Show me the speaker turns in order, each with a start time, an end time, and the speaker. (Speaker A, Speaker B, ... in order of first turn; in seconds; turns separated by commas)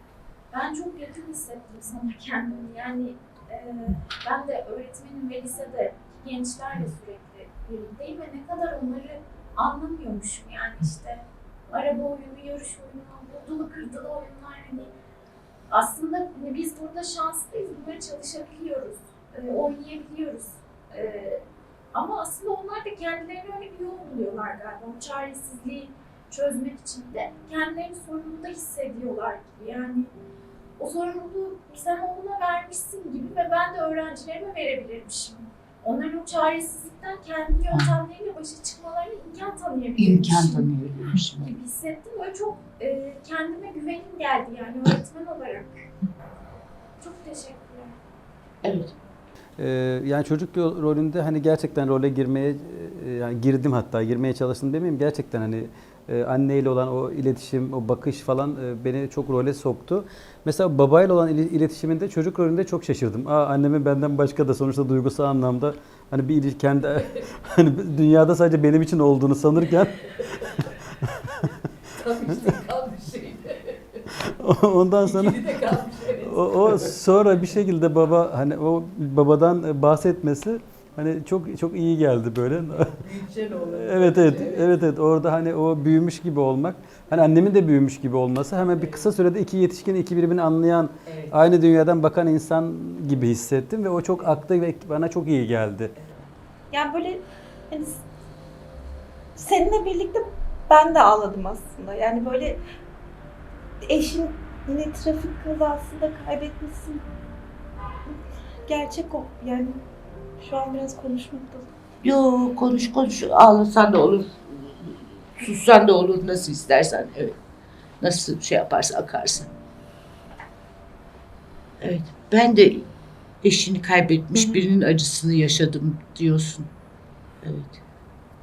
Speaker A: 0.5-14.9, Speaker A: 15.7-30.1, Speaker A: 30.8-40.7, Speaker B: 37.7-38.0, Speaker B: 40.0-41.5, Speaker A: 41.4-45.8, Speaker A: 47.0-48.0, Speaker B: 48.6-48.9, Speaker C: 49.6-71.5, Speaker B: 72.0-73.8, Speaker C: 74.3-83.0, Speaker B: 75.0-76.9, Speaker B: 83.0-84.7, Speaker C: 83.7-95.9, Speaker B: 88.8-89.0, Speaker B: 91.1-91.3, Speaker D: 96.7-98.0, Speaker D: 99.3-102.6, Speaker D: 103.8-107.0, Speaker D: 108.7-109.8, Speaker D: 110.4-111.7, Speaker B: 112.0-117.4, Speaker B: 118.0-119.5, Speaker B: 121.8-122.9, Speaker B: 123.4-126.7, Speaker B: 127.4-127.8